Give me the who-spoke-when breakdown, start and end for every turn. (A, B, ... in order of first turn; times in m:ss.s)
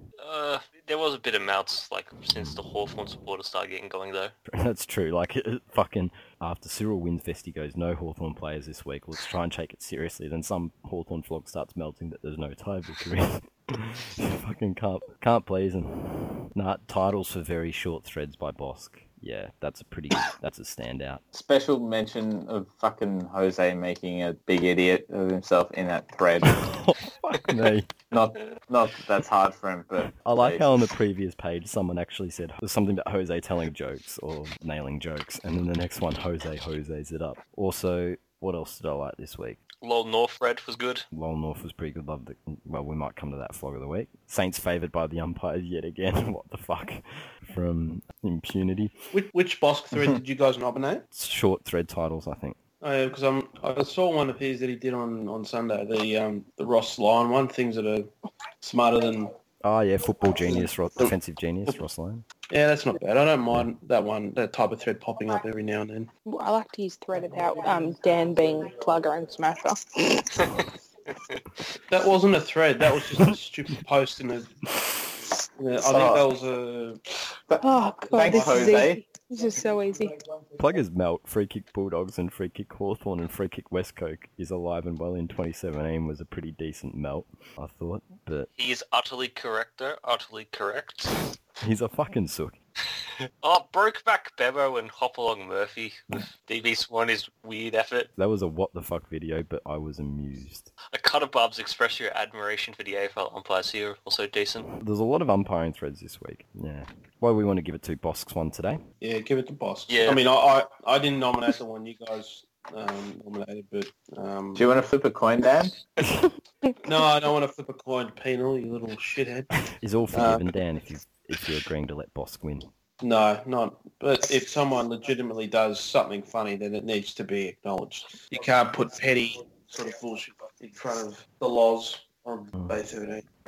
0:00.2-0:04.3 A
0:04.5-0:21.2 B
0:21.3-0:26.7 C
0:26.4-0:27.9 B
0:28.1-0:30.6 C
0:30.2-0:39.6 B
0:39.8-0:41.0 A
0:41.1-0:48.9 B
0:49.1-0:51.0 D
0:51.1-0:52.6 B
0:52.8-0:58.1 D
0:58.6-0:59.3 D
0:59.6-1:02.2 B
1:00.5-1:01.1 D
1:02.5-1:06.1 D
1:06.2-1:10.6 E
1:11.9-1:14.5 D
1:15.6-1:17.0 D
1:15.9-1:16.2 C
1:17.5-1:19.0 C
1:17.6-1:20.2 E
1:18.2-1:18.9 D
1:20.6-1:28.5 B
1:28.6-1:31.2 A
1:31.6-1:32.6 B
1:33.2-1:38.1 A
1:38.2-1:40.7 B
1:40.9-1:44.7 A
1:44.8-1:48.8 B
1:49.0-1:54.7 D
1:49.9-1:50.2 A
1:54.6-1:55.8 C
1:56.8-2:00.5 D
1:59.7-2:02.7 B
2:03.0-2:13.2 D